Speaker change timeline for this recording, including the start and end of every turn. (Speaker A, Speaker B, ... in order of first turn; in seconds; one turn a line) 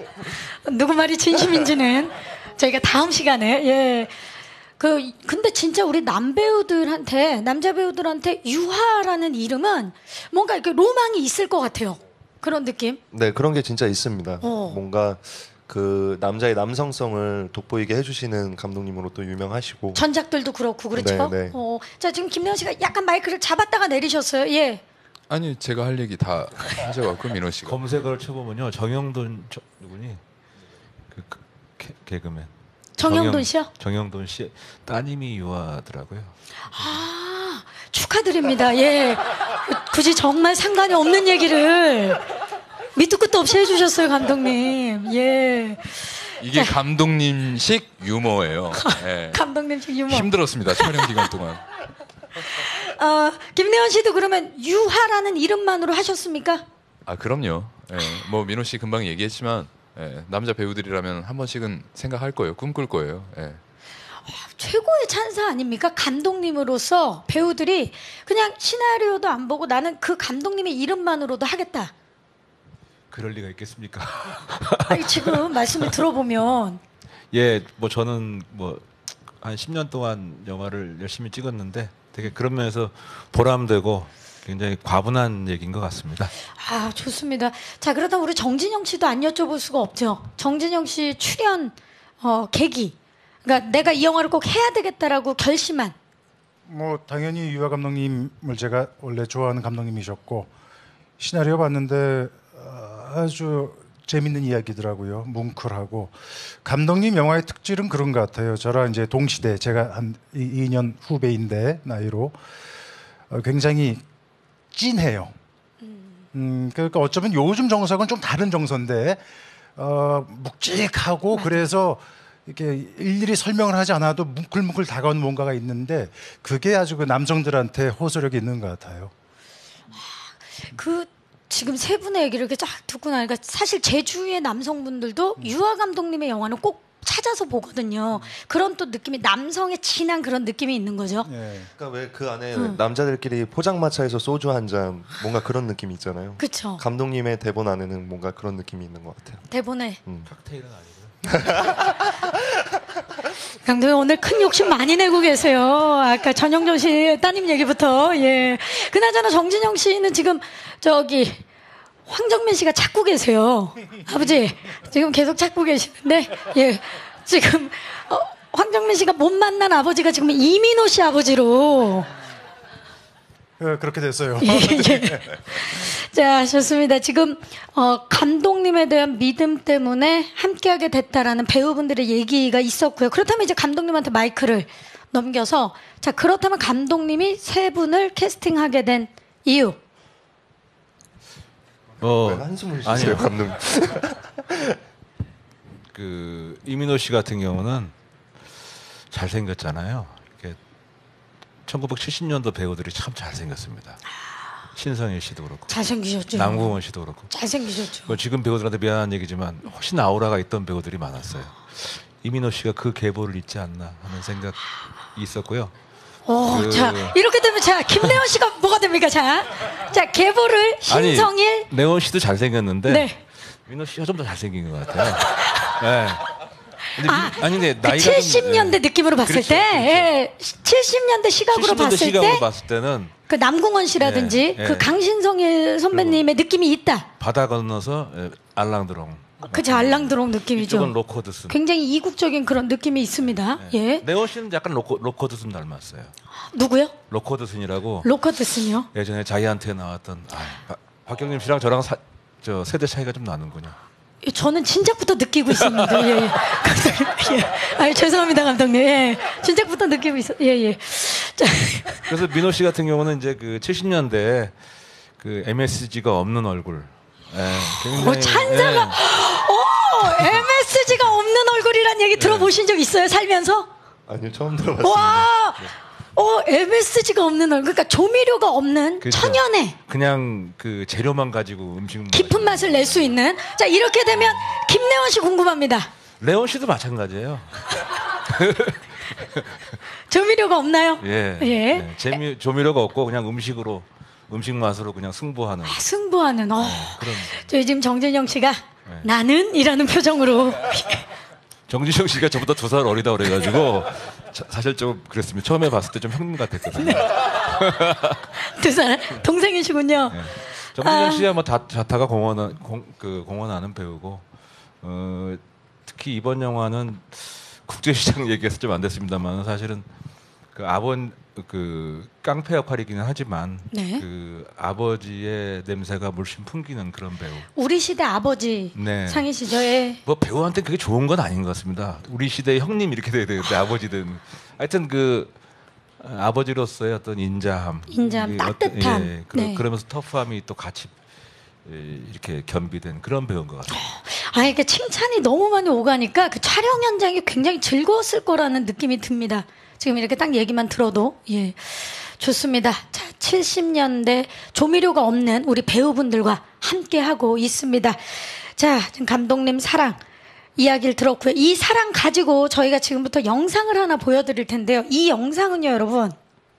Speaker A: 0.3-4.2
Speaker A: 4.8-13.0
Speaker B: 13.1-20.0
Speaker A: 14.4-14.8
Speaker A: 19.9-24.8
Speaker B: 20.9-21.6
Speaker C: 25.3-27.8
Speaker D: 27.6-30.2
Speaker D: 31.1-36.3
Speaker A: 33.0-33.7
Speaker A: 36.7-42.3
Speaker A: 43.0-46.8
Speaker C: 46.4-49.4
Speaker A: 48.7-51.3
Speaker C: 50.0-51.6
Speaker A: 52.4-56.6
Speaker C: 57.1-63.6
Speaker A: 64.3-71.9
Speaker D: 73.1-75.9
Speaker A: 74.9-76.8
Speaker D: 77.3-78.9
Speaker D: 79.4-86.3
Speaker A: 86.5-95.9
Speaker E: 96.7-100.5
Speaker E: 101.2-112.4
Speaker E: 113.3-114.0
Speaker E: 114.7-115.3
Speaker A: 115.8-116.2
Speaker E: 116.3-119.2
Speaker E: 119.8-129.1
Speaker A: 121.3-121.7
Speaker A: 129.9-141.3
Speaker E: 141.2-141.7
Speaker B: 141.8-149.4
Speaker A: 146.4-146.8
Speaker A: 149.5-150.0
Speaker D: 150.3-151.7
Speaker B: 151.3-151.8
Speaker A: 153.5-161.4
Speaker A: 162.1-172.1
Speaker E: 173.6-175.3
Speaker A: 174.4-189.8
Speaker D: 192.0-193.4
Speaker B: 192.2-194.8
Speaker D: 195.9-197.9
Speaker D: 199.1-200.6
Speaker D: 201.7-204.0
Speaker D: 204.8-205.8
Speaker A: 205.7-206.8
Speaker D: 206.3-207.3
Speaker A: 207.3-208.1
Speaker D: 208.0-215.7
Speaker A: 216.3-221.7
Speaker D: 216.5-217.2
Speaker D: 220.9-226.3
Speaker A: 222.9-223.2
Speaker D: 226.9-230.1
Speaker A: 227.0-232.5
Speaker D: 231.5-233.1
Speaker A: 233.3-237.1
Speaker D: 234.0-235.0
Speaker D: 235.9-236.3
Speaker D: 237.2-241.6
Speaker A: 239.4-240.9
Speaker A: 241.5-244.0
Speaker D: 243.5-246.1
Speaker A: 246.5-246.9
Speaker D: 247.1-248.1
Speaker A: 248.0-248.9
Speaker D: 248.9-253.8
Speaker A: 254.2-262.2
Speaker D: 255.6-256.3
Speaker D: 262.1-264.6
Speaker D: 265.2-269.0
Speaker A: 267.9-273.7
Speaker D: 270.0-270.5
Speaker D: 272.2-272.5
Speaker B: 274.1-275.3
Speaker A: 274.8-279.8
Speaker D: 279.0-283.2
Speaker A: 282.1-285.9
Speaker D: 284.1-284.4
Speaker D: 286.2-289.6
Speaker A: 289.9-291.9
Speaker D: 291.0-295.8
Speaker A: 295.6-301.1
Speaker D: 296.6-297.5
Speaker D: 298.9-299.1
Speaker D: 301.7-308.3
Speaker A: 306.7-307.2
Speaker A: 308.4-310.3
Speaker D: 310.1-314.2
Speaker A: 310.8-311.3
Speaker D: 314.8-319.9
Speaker D: 320.5-327.5
Speaker A: 323.7-324.0
Speaker A: 327.6-330.0
Speaker D: 328.7-335.3
Speaker D: 336.0-340.9
Speaker A: 337.9-339.6
Speaker D: 341.6-343.8
Speaker A: 343.7-360.0
Speaker A: 360.6-366.2